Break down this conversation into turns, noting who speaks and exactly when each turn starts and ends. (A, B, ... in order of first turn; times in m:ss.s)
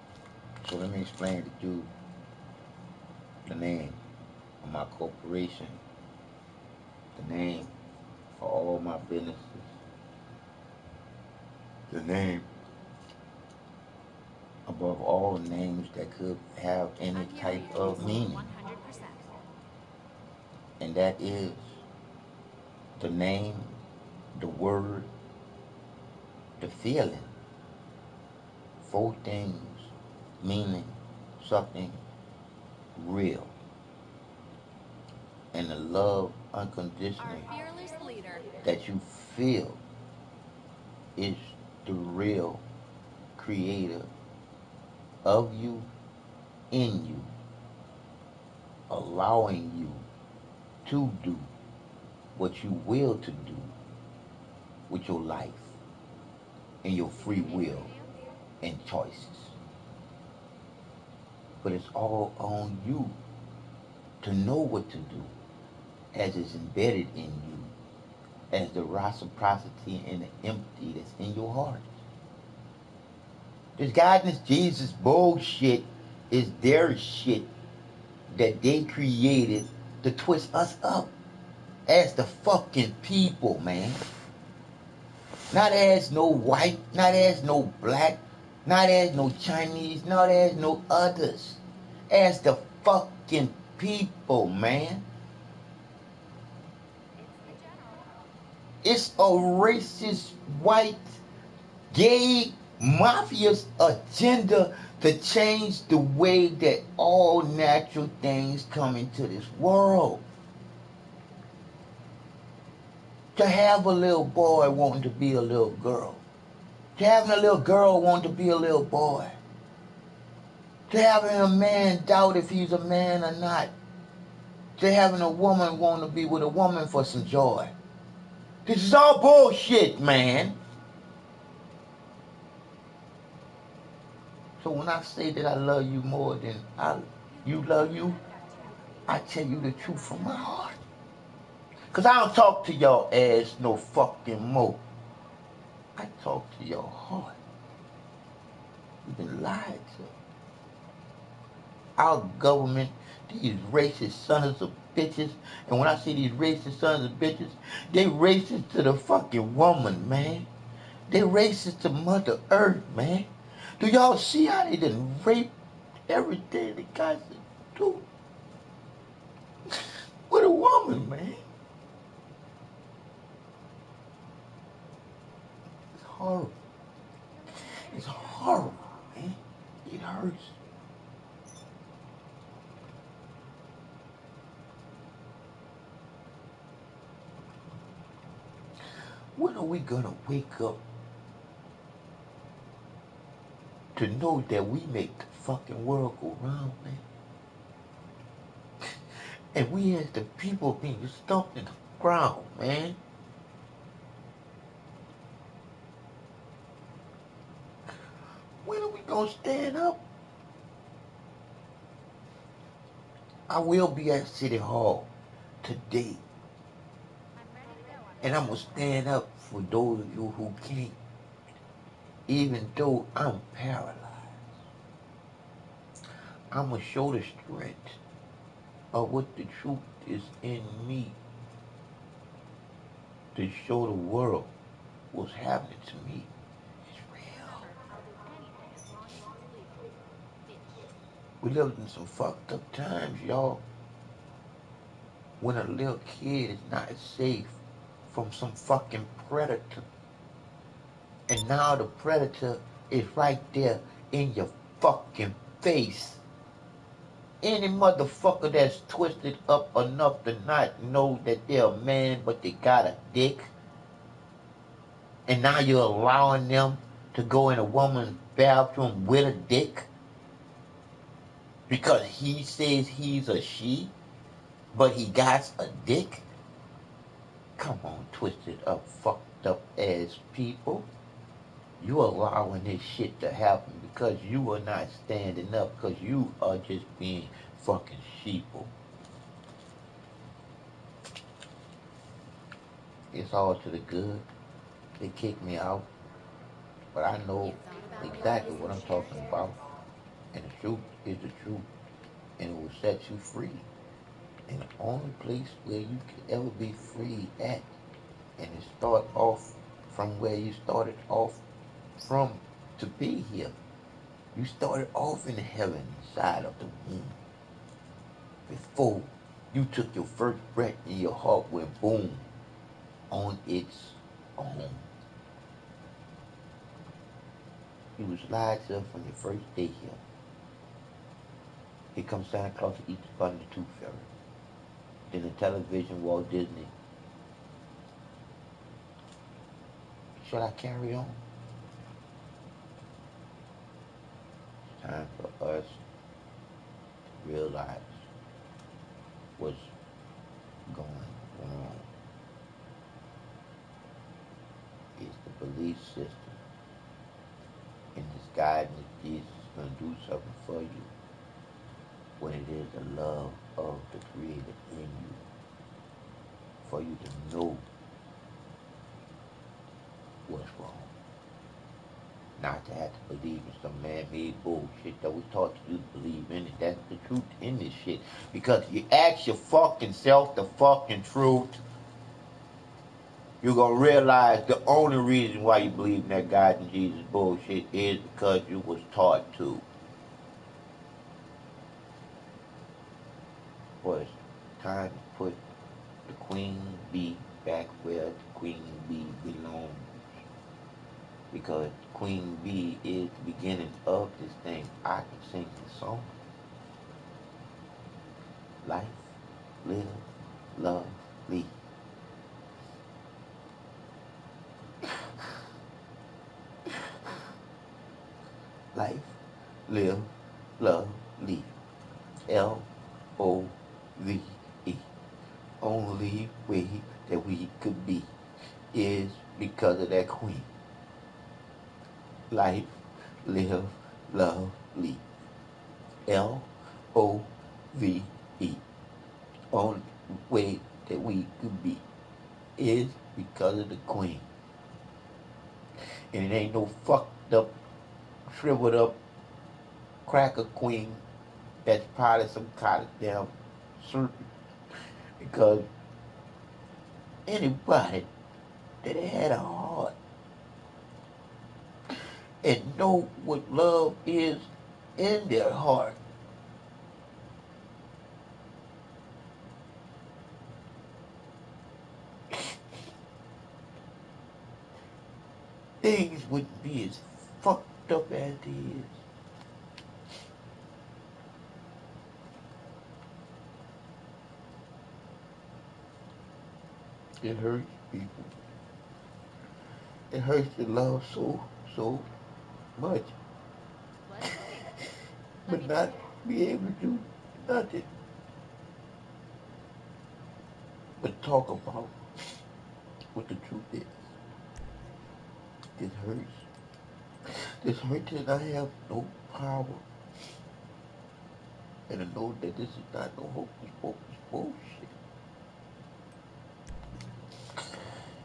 0:00.6-0:01.9 A
0:03.4-0:04.0 A
0:04.6-0:05.8 A
0:07.1-0:07.7 A
0:08.4-0:09.7 A
0:11.9-0:12.5 A
0:14.6-0:18.5 A
0:17.1-0:19.3 B
0:20.8-0:21.8 A
0:23.0-0:23.8 A
0:24.3-0:25.1 A
0:26.6-0:27.4 A
0:28.8-0:32.0 A
0:33.0-0:33.5 A
0:35.5-0:37.5 A
0:37.2-0:38.6 B
0:38.6-0:39.8 A
0:41.2-0:42.6 A
0:43.4-0:44.1 A
0:45.2-0:45.9 A
0:46.7-0:47.3 A
0:48.9-0:50.0 A
0:50.8-0:51.5 A
0:52.4-0:53.7 A
0:54.9-0:55.8 A
0:56.8-0:57.9 A
0:57.1-0:58.2 B
0:58.6-0:59.6 A
1:01.6-1:03.2 A
1:04.2-1:05.3 A
1:06.1-1:07.7 A
1:08.5-1:11.9 A
1:13.8-1:17.5 A
1:18.3-1:21.1 A
1:21.9-1:24.0 A
1:25.5-1:35.0 A
1:37.2-1:38.3 B
1:38.8-1:41.2 A
1:41.9-1:50.2 A
1:53.4-1:56.2 A
1:57.0-1:59.4 A
2:00.9-2:03.7 A
2:04.8-2:07.7 A
2:08.6-2:10.6 A
2:14.6-2:18.2 A
2:17.3-2:19.2 B
2:19.1-2:20.8 A
2:19.9-2:20.2 B
2:21.9-2:24.8 A
2:26.0-2:27.4 A
2:29.0-2:30.1 A
2:32.0-2:40.5 A
2:41.1-2:45.5 A
2:46.1-2:48.0 A
2:49.7-2:51.4 A
2:56.0-2:56.5 A
2:57.3-2:59.0 B
2:57.6-3:00.6 A
3:08.9-3:10.8 A
3:13.9-3:17.0 A
3:18.8-3:23.0 A
3:28.6-3:30.0 A
3:33.5-3:35.1 A
3:35.6-3:36.2 A
3:37.3-3:39.1 B
3:38.2-3:41.0 A
3:42.3-3:44.4 A
3:46.5-3:48.0 A
3:48.9-3:51.2 A
3:53.3-3:54.5 A
3:55.1-3:56.3 A
3:56.8-3:57.7 A
3:57.3-4:00.9 B
4:01.4-4:03.6 A
4:05.4-4:07.6 A
4:08.1-4:09.8 A
4:11.3-4:16.2 A
4:17.4-4:23.5 A
4:25.3-4:29.9 A
4:31.7-4:33.9 A
4:34.7-4:36.2 A
4:37.6-4:40.9 A
4:41.8-4:48.7 A
4:53.1-4:54.2 A
4:55.0-4:55.9 A
4:56.9-4:59.6 A
4:57.4-4:59.5 B
5:00.3-5:01.7 A
5:02.4-5:03.6 A
5:04.5-5:07.8 A
5:08.4-5:11.4 A
5:12.0-5:13.5 A
5:14.3-5:17.2 A
5:18.5-5:22.3 A
5:23.1-5:24.9 A
5:28.0-5:30.0 A
5:31.9-5:34.1 A
5:35.1-5:36.7 A
5:40.2-5:41.2 A
5:44.8-5:45.8 A
5:47.2-5:48.0 A
5:49.4-5:49.7 A
5:50.7-5:51.9 A
5:55.0-5:56.4 A
5:57.9-6:00.9 A
6:02.2-6:05.2 A
6:06.6-6:07.6 A
6:10.2-6:10.9 A
6:12.4-6:21.6 A
6:23.4-6:29.6 A
6:33.8-6:35.4 A
6:36.1-6:39.9 A
6:41.3-6:46.1 A
6:48.6-6:51.5 A
6:54.8-6:55.2 A
6:58.7-6:59.2 A
6:59.7-7:01.5 A
7:02.3-7:02.7 A
7:03.2-7:04.8 A
7:05.6-7:10.5 A
7:12.3-7:15.0 A
7:16.0-7:18.6 A
7:19.5-7:21.8 A
7:22.6-7:24.3 A
7:25.8-7:27.5 A
7:28.3-7:29.0 A
7:30.1-7:31.0 A
7:31.6-7:35.7 A
7:37.3-7:38.1 A
7:38.8-7:39.9 A
7:41.9-7:46.0 A
7:52.3-7:52.6 A
7:55.8-7:59.0 A
8:07.2-8:08.3 A
8:10.1-8:12.1 A
8:12.8-8:13.1 A
8:14.0-8:14.8 B
8:15.4-8:16.1 B
8:15.5-8:17.9 A
8:21.0-8:22.0 A
8:23.1-8:24.1 A
8:25.8-8:26.4 A
8:27.3-8:29.8 A
8:31.9-8:34.9 A
8:37.5-8:37.9 A